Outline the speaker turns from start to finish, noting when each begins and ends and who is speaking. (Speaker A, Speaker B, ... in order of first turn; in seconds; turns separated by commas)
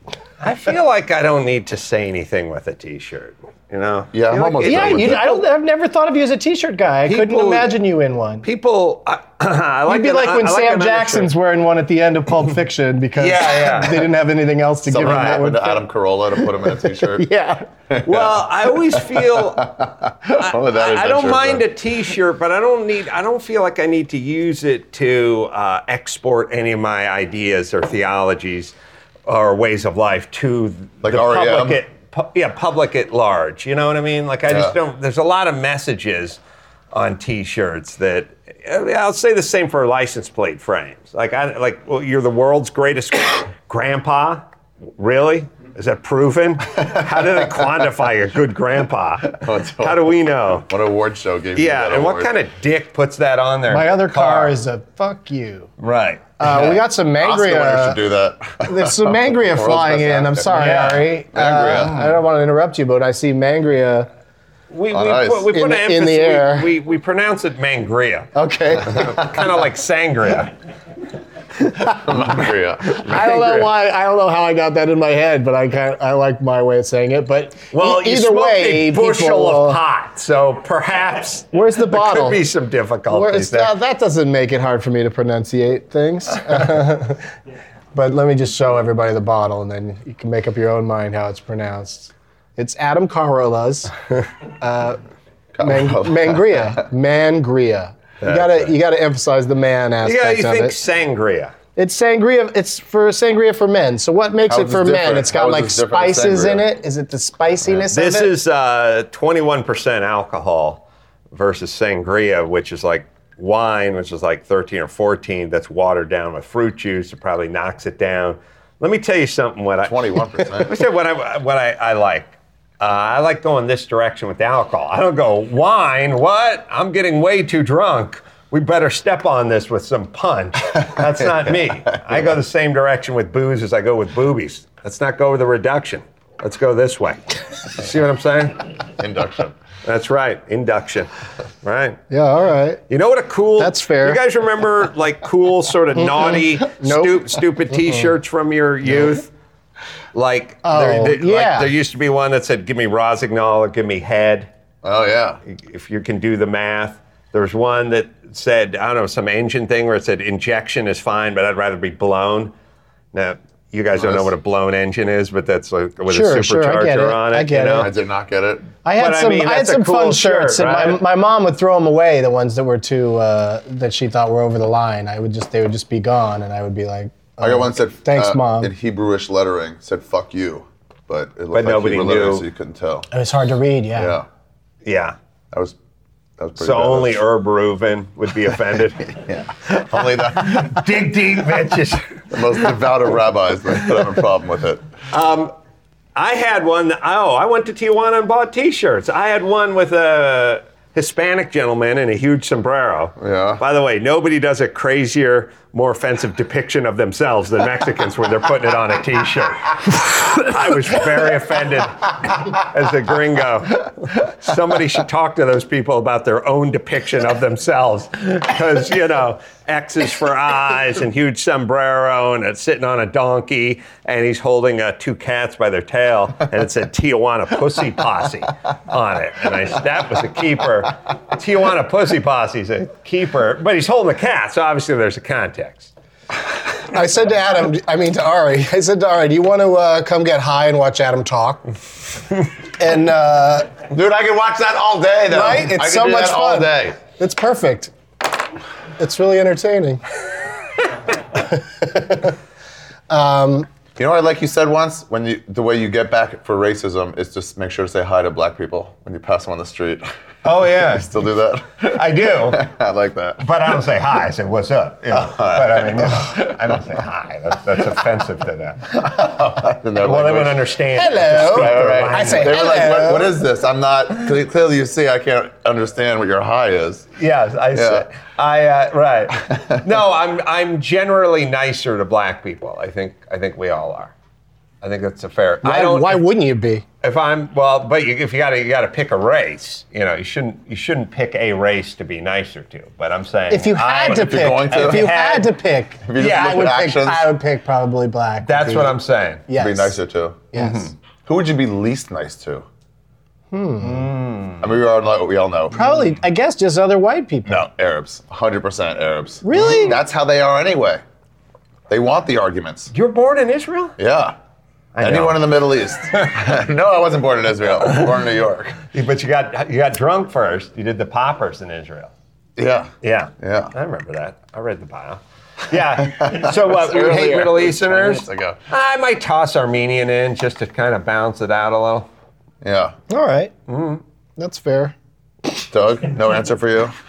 Speaker A: 0.4-5.4, Speaker B: 4.1-5.2, Speaker C: 4.7-8.4, Speaker A: 7.1-7.7, Speaker A: 8.4-11.3, Speaker C: 9.9-15.8, Speaker A: 13.2-14.1, Speaker B: 14.9-17.3, Speaker A: 15.0-15.5, Speaker C: 16.8-17.7, Speaker B: 17.9-21.6, Speaker A: 18.0-19.8, Speaker A: 20.3-28.8, Speaker A: 29.3-36.4, Speaker B: 31.0-31.8, Speaker B: 34.5-34.8, Speaker A: 36.9-44.4, Speaker A: 45.0-50.7, Speaker B: 49.3-52.3, Speaker A: 51.6-54.6, Speaker C: 53.7-55.7, Speaker A: 55.8-56.3, Speaker C: 56.4-58.0, Speaker B: 56.5-60.6, Speaker C: 58.6-64.1, Speaker A: 60.5-61.1, Speaker B: 61.3-62.0, Speaker A: 61.8-62.1, Speaker A: 64.7-68.3, Speaker B: 64.9-65.5, Speaker C: 65.5-66.7, Speaker C: 68.3-69.2, Speaker A: 68.9-70.5, Speaker B: 71.9-73.0, Speaker A: 73.0-73.7, Speaker C: 73.0-79.8, Speaker A: 77.7-83.7, Speaker C: 81.5-82.4, Speaker C: 83.1-87.2, Speaker C: 87.9-93.9, Speaker C: 94.6-95.0, Speaker B: 95.5-96.8, Speaker C: 95.6-100.8, Speaker A: 98.2-98.7, Speaker A: 100.0-101.5, Speaker C: 101.8-108.3, Speaker B: 104.5-106.7, Speaker A: 107.9-138.8, Speaker B: 119.8-120.8, Speaker B: 139.0-139.6, Speaker A: 139.8-141.1, Speaker A: 141.6-142.0, Speaker C: 142.1-142.8, Speaker A: 142.9-149.3, Speaker C: 143.6-144.2, Speaker C: 146.0-148.1, Speaker A: 150.1-154.5, Speaker C: 150.6-151.7, Speaker B: 154.8-155.4, Speaker A: 155.5-162.5, Speaker A: 163.1-167.9, Speaker B: 164.0-164.3, Speaker C: 166.1-167.9, Speaker B: 167.8-168.7, Speaker C: 168.8-178.7, Speaker A: 169.0-171.0, Speaker B: 177.4-183.1, Speaker A: 181.5-182.5, Speaker C: 183.1-184.2, Speaker B: 183.9-184.3, Speaker A: 184.8-185.2, Speaker B: 185.5-185.8, Speaker B: 186.4-187.2, Speaker A: 186.6-189.2, Speaker B: 189.2-190.8, Speaker A: 190.0-192.5, Speaker B: 192.3-194.8, Speaker A: 195.1-195.5, Speaker A: 196.2-235.9, Speaker B: 203.2-203.6, Speaker C: 236.9-241.7, Speaker C: 242.8-243.7, Speaker B: 243.9-247.0, Speaker C: 245.3-247.9, Speaker C: 249.0-250.0, Speaker C: 251.5-252.3, Speaker C: 253.1-253.7, Speaker B: 254.0-260.1, Speaker A: 260.4-261.1, Speaker B: 260.6-263.6, Speaker A: 261.9-262.7, Speaker A: 263.4-269.4, Speaker B: 265.1-266.5, Speaker B: 269.1-270.7, Speaker A: 270.0-272.6, Speaker C: 270.9-273.4, Speaker B: 271.4-277.1, Speaker A: 277.2-284.1, Speaker B: 277.7-278.1, Speaker B: 279.5-279.8, Speaker A: 284.8-286.2, Speaker C: 285.6-286.8, Speaker A: 287.0-295.6, Speaker C: 293.5-300.0, Speaker B: 294.1-295.2, Speaker B: 296.0-297.3, Speaker A: 296.2-296.7, Speaker A: 298.4-299.4, Speaker B: 299.5-300.5, Speaker C: 300.5-300.9, Speaker A: 300.6-300.9, Speaker B: 301.2-302.7, Speaker C: 303.5-304.1, Speaker A: 303.8-304.7, Speaker B: 304.6-305.8, Speaker C: 305.7-307.7, Speaker B: 307.5-311.0, Speaker C: 309.4-310.0, Speaker B: 311.9-312.9, Speaker A: 312.9-314.0, Speaker B: 314.0-314.4, Speaker A: 314.9-315.6, Speaker B: 315.0-318.8, Speaker A: 318.9-322.1, Speaker B: 322.6-323.7, Speaker A: 323.0-332.1, Speaker B: 326.0-328.6, Speaker B: 332.6-332.9, Speaker C: 333.1-333.5, Speaker A: 333.7-334.0, Speaker C: 334.4-334.9, Speaker B: 335.7-336.9